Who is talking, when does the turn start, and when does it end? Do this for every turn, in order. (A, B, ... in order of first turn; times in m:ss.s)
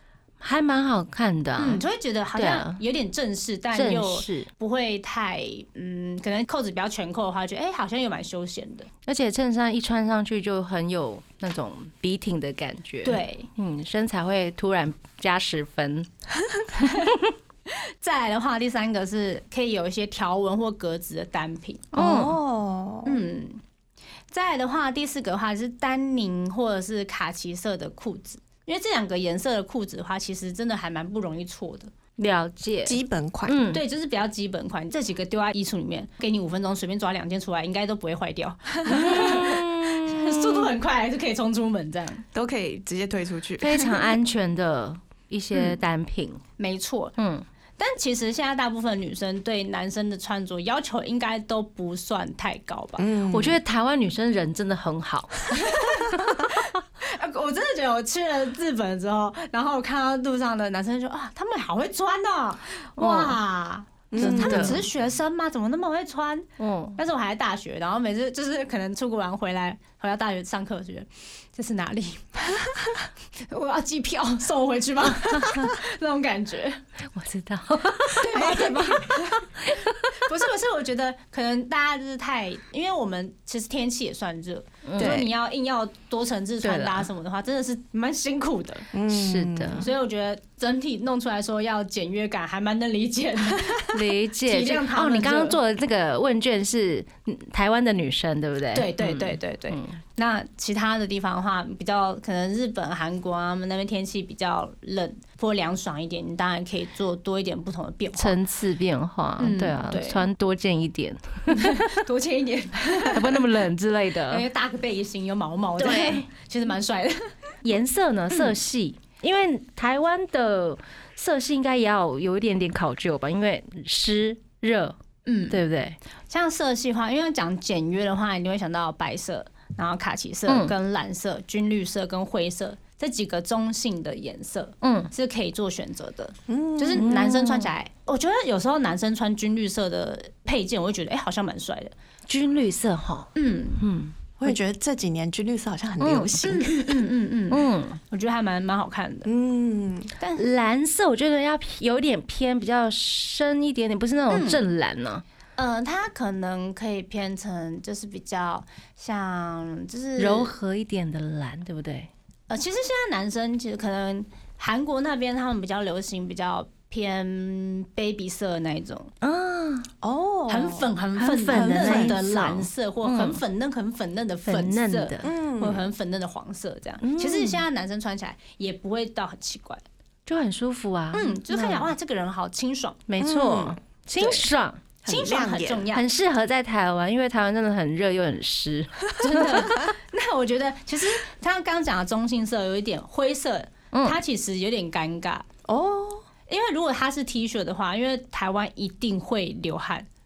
0:00.4-0:02.8 A
0:01.6-0:08.9 B
0:03.7-0:04.5 A
0:09.0-0:16.1 A
0:13.0-0:13.5 B
0:16.8-0:17.1 B
0:16.8-0:17.3 A
0:18.0-0:21.9 B
0:21.9-0:22.4 A
0:21.9-0:23.2 C
0:23.0-0:23.6 B
0:24.3-0:31.9 B
0:32.2-0:33.8 A
0:32.8-0:33.6 C
0:33.7-0:42.2 B
0:38.9-0:39.3 C
0:38.9-0:40.7 A
0:42.3-0:44.1 C
0:43.6-0:46.4 A
0:46.6-0:47.2 B
0:47.2-0:47.4 A
0:47.8-0:53.0 B
0:53.0-0:53.6 C
0:53.3-0:55.4 A
0:55.5-1:12.4 B
0:56.1-0:56.4 A
1:03.0-1:03.4 A
1:04.1-1:04.8 C
1:04.2-1:04.8 A
1:06.6-1:07.0 A
1:13.4-1:16.8 B
1:17.1-1:19.0 A
1:18.2-1:19.5 B
1:18.3-1:18.7 C
1:19.6-1:19.9 A
1:20.1-1:28.9 B
1:24.8-1:25.2 A
1:25.0-1:25.3 C
1:26.6-1:27.1 A
1:28.9-1:29.8 C
1:29.1-1:29.8 A
1:29.8-1:35.6 B
1:33.9-1:40.0 A
1:38.7-1:48.4 B
1:48.1-1:52.0 A
1:49.4-1:50.2 B
1:51.5-1:53.5 B
1:53.0-1:54.4 A
1:54.3-1:57.3 B
1:55.8-1:56.2 A
1:57.6-2:05.0 A
2:05.2-2:05.6 B
2:05.5-2:06.0 A
2:06.3-2:21.9 B
2:10.5-2:10.7 A
2:14.8-2:15.1 A
2:16.5-2:17.1 C
2:17.0-2:17.7 A
2:22.3-2:24.5 A
2:23.3-2:23.8 B
2:24.4-2:27.0 C
2:26.0-2:26.3 A
2:26.4-2:29.3 B
2:27.5-2:28.0 A
2:29.2-2:30.1 C
2:30.2-2:30.4 B
2:30.4-2:35.2 A
2:34.3-2:34.6 B
2:35.6-2:40.5 B
2:40.2-2:42.1 A
2:42.5-2:49.1 B
2:49.2-2:49.9 A
2:50.0-2:50.9 C
2:50.5-2:59.8 B
2:51.2-2:53.4 A
2:51.5-2:52.2 C
2:54.4-2:55.2 A
2:55.2-2:55.8 C
2:57.0-2:57.6 A
3:00.3-3:01.9 A
3:01.1-3:03.0 B
3:03.1-3:04.8 A
3:03.2-3:03.8 C
3:04.2-3:04.4 B
3:05.0-3:05.9 C
3:05.1-3:06.0 B
3:05.9-3:09.8 A
3:09.2-3:15.4 B
3:13.9-3:14.2 A
3:15.7-3:16.2 C
3:16.5-3:20.1 B